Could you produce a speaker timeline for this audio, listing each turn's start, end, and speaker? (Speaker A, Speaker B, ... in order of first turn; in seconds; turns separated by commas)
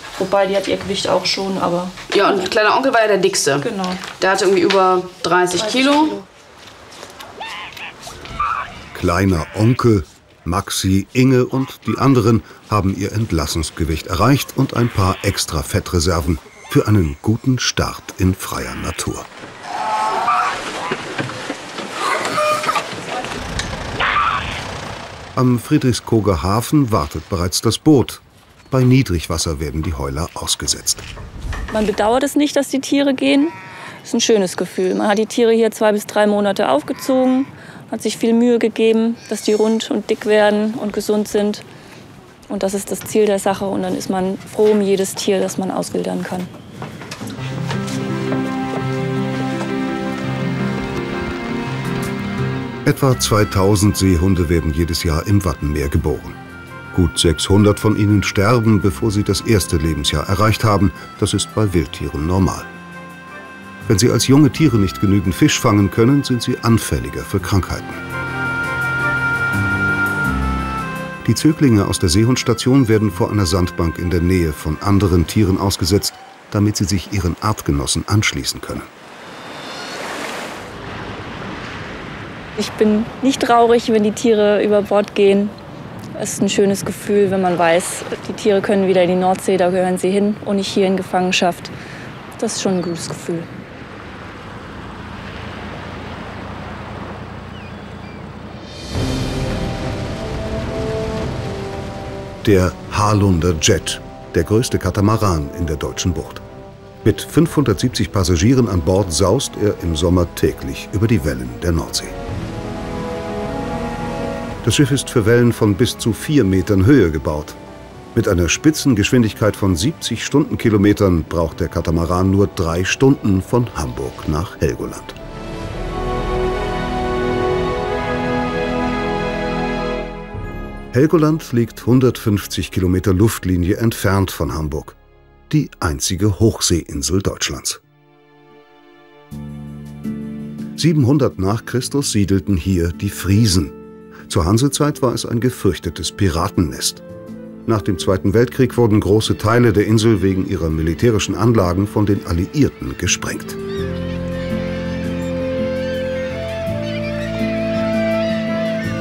Speaker A: 0.2-2.0, Speaker B: 2.1-6.2, Speaker A: 3.6-4.0, Speaker A: 5.6-6.2, Speaker C: 8.9-19.3, Speaker C: 25.4-31.1, Speaker A: 31.7-33.5, Speaker A: 34.0-41.6, Speaker A: 42.5-46.5, Speaker C: 52.9-56.4, Speaker C: 56.9-62.7, Speaker C: 63.9-68.0, Speaker C: 71.2-78.9, Speaker A: 82.6-85.5, Speaker A: 86.2-91.7, Speaker A: 92.4-93.5, Speaker C: 102.4-106.4, Speaker C: 107.0-112.2, Speaker C: 114.6-117.6, Speaker C: 118.1-125.2, Speaker C: 130.9-135.0, Speaker C: 135.5-137.8, Speaker C: 140.8-143.8, Speaker C: 144.3-147.0, Speaker C: 147.7-153.6